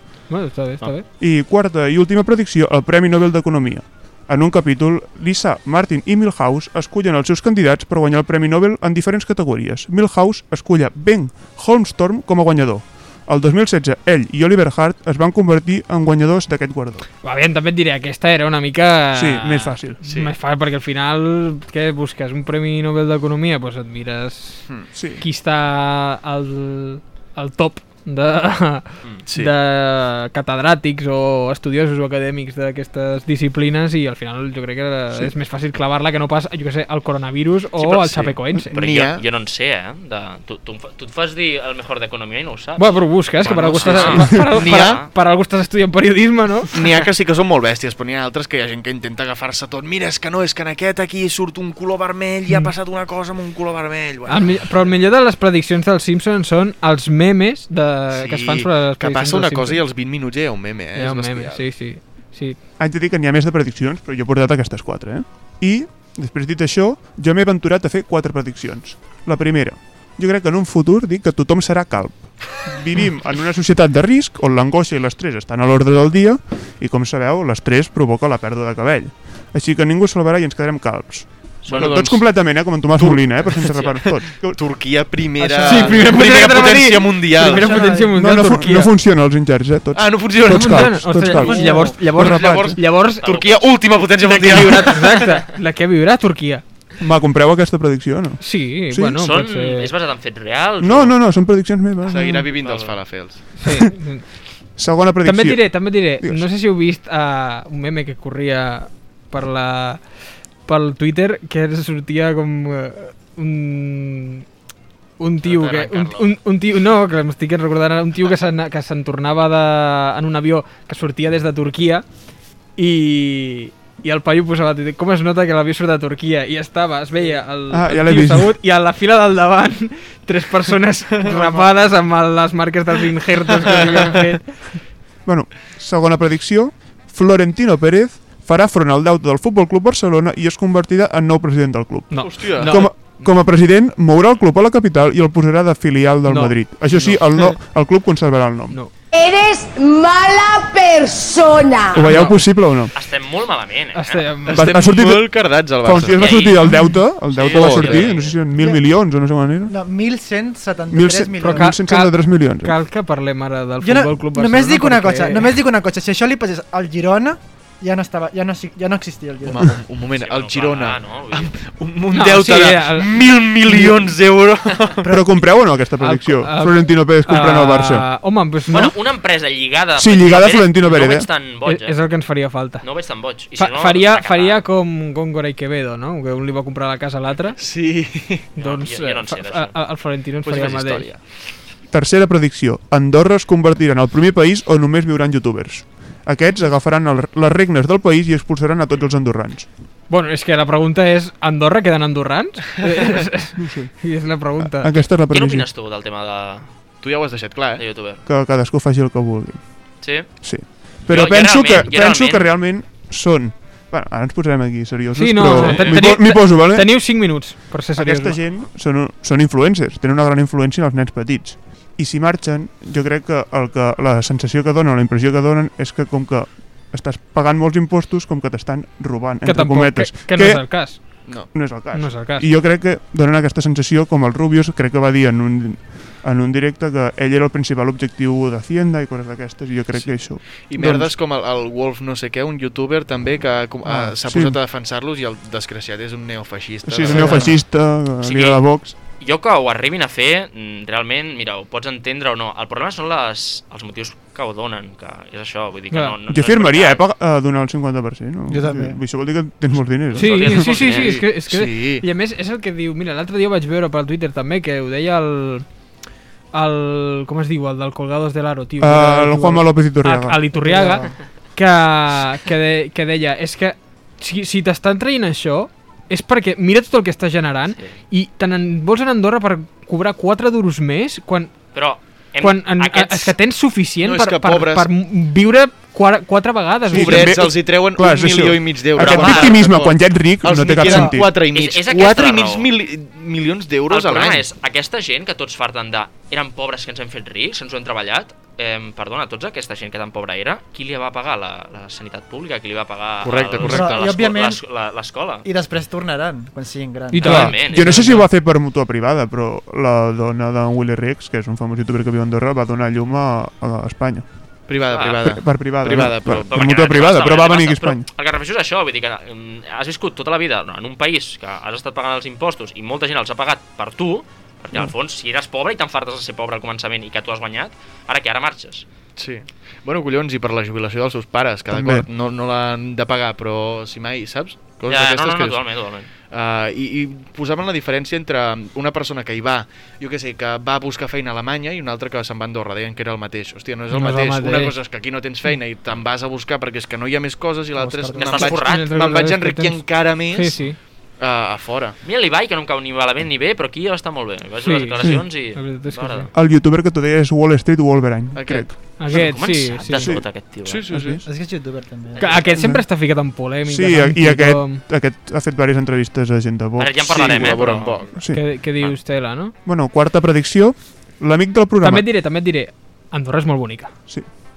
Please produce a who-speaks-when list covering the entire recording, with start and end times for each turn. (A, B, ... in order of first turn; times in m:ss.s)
0:00.3-0:01.0 A
0:01.2-0:17.0 B
0:17.2-0:24.6 A
0:19.1-0:20.0 B
0:20.0-0:20.3 C
0:24.9-0:25.2 B
0:25.2-0:38.7 A
0:29.3-0:29.5 C
0:37.8-0:39.2 C
0:38.7-0:45.1 D
0:42.8-0:46.7 A
0:43.7-0:45.0 C
0:46.7-0:54.7 C
0:54.3-0:59.8 A
0:58.1-1:01.7 C
1:01.0-1:02.6 A
1:02.8-1:24.6 B
1:21.6-1:22.0 D
1:21.7-1:22.3 C
1:23.0-1:27.8 C
1:25.4-1:26.2 E
1:25.6-1:28.9 A
1:27.4-1:28.1 E
1:27.9-1:32.8 B
1:29.9-1:35.3 C
1:30.5-1:33.4 A
1:33.2-1:33.7 D
1:34.2-1:36.6 A
1:37.0-1:39.2 B
1:38.4-1:39.9 A
1:39.2-1:41.2 D
1:40.8-1:42.5 B
1:42.1-1:43.4 C
1:42.6-1:43.0 D
1:43.6-1:44.2 A
1:44.8-1:46.5 B
1:45.2-1:50.0 A
1:50.7-1:54.4 A
1:55.2-2:02.0 A
1:55.4-1:56.0 C
2:02.8-2:14.8 A
2:07.7-2:08.6 B
2:11.2-2:11.7 C
2:13.6-2:14.2 C
2:15.2-2:28.8 B
2:22.1-2:23.3 A
2:22.2-2:22.9 C
2:26.3-2:26.6 A
2:26.9-2:27.2 C
2:29.1-2:32.1 F
2:31.9-2:32.9 B
2:32.0-2:32.4 A
2:32.9-2:34.3 D
2:33.9-2:34.7 A
2:34.4-2:36.6 C
2:34.5-2:39.7 B
2:36.1-2:36.6 D
2:37.3-2:38.4 D
2:37.3-2:38.3 C
2:38.6-2:38.8 E
2:39.6-2:41.8 E
2:40.9-2:42.7 B
2:41.4-2:45.5 A
2:43.8-2:49.8 E
2:49.4-2:55.1 C
2:50.2-2:51.6 D
2:52.1-2:53.1 A
2:55.0-2:58.0 B
2:56.0-2:58.9 A
2:58.7-3:02.0 D
3:00.0-3:01.3 B
3:01.6-3:02.8 A
3:02.8-3:04.6 D
3:03.6-3:07.6 A
3:07.6-3:08.5 C
3:08.6-3:11.1 A
3:08.6-3:09.7 D
3:10.4-3:11.2 C
3:11.9-3:19.7 B
3:20.1-3:24.9 A
3:23.6-3:25.7 B
3:25.3-3:26.7 D
3:27.0-3:27.8 C
3:27.8-3:28.2 D
3:28.2-3:37.3 B
3:30.0-3:30.3 D
3:31.1-3:32.5 D
3:35.2-3:38.4 A
3:35.7-3:35.9 D
3:38.0-4:01.1 B
3:49.4-3:51.0 A
3:51.3-3:51.5 C
3:51.9-3:52.5 A
4:00.0-4:07.4 C
4:03.8-4:04.6 B
4:06.9-4:08.9 B
4:07.1-4:07.5 E
4:08.2-4:08.6 D
4:09.2-4:17.0 D
4:16.3-4:20.6 B
4:18.5-4:19.0 E
4:20.1-4:21.2 D
4:20.2-4:25.6 A
4:20.4-4:22.0 C
4:26.5-4:41.5 A
4:28.8-4:30.8 B
4:30.6-4:31.1 E
4:41.7-4:43.3 D
4:42.4-4:47.3 A
4:44.0-4:44.9 C
4:46.9-4:51.3 B
4:46.9-4:54.4 C
4:49.0-4:49.6 D
4:50.8-4:51.2 E
4:51.5-4:52.7 D
4:53.9-5:05.4 D
5:03.2-5:04.1 C
5:03.6-5:04.6 E
5:05.4-5:07.6 E
5:07.1-5:08.3 A
5:07.2-5:14.3 B
5:07.2-5:08.0 D
5:14.7-5:16.5 C
5:14.9-5:15.3 D
5:15.2-5:18.1 B
5:16.3-5:28.9 D
5:29.2-5:35.6 C
5:31.7-5:32.1 B
5:34.9-5:36.1 D
5:36.3-5:50.6 C
5:43.9-5:44.7 A
5:47.8-5:48.5 E
5:48.2-5:48.9 D
5:48.6-5:50.8 A
5:51.2-5:52.0 C
5:52.0-5:56.3 D
5:54.6-5:56.3 A
5:55.0-5:55.3 B
5:56.3-5:59.3 B
5:58.3-5:58.7 C
5:59.0-6:00.1 A
5:59.0-6:00.9 D
6:00.0-6:00.3 B
6:00.6-6:01.2 C
6:00.9-6:01.2 B
6:01.3-6:02.4 E
6:02.1-6:02.6 D
6:02.2-6:04.8 A
6:02.6-6:02.9 B
6:03.6-6:08.6 B
6:06.8-6:08.0 D
6:07.0-6:08.2 C
6:08.3-6:09.5 A
6:09.6-6:12.1 B
6:11.8-6:13.9 A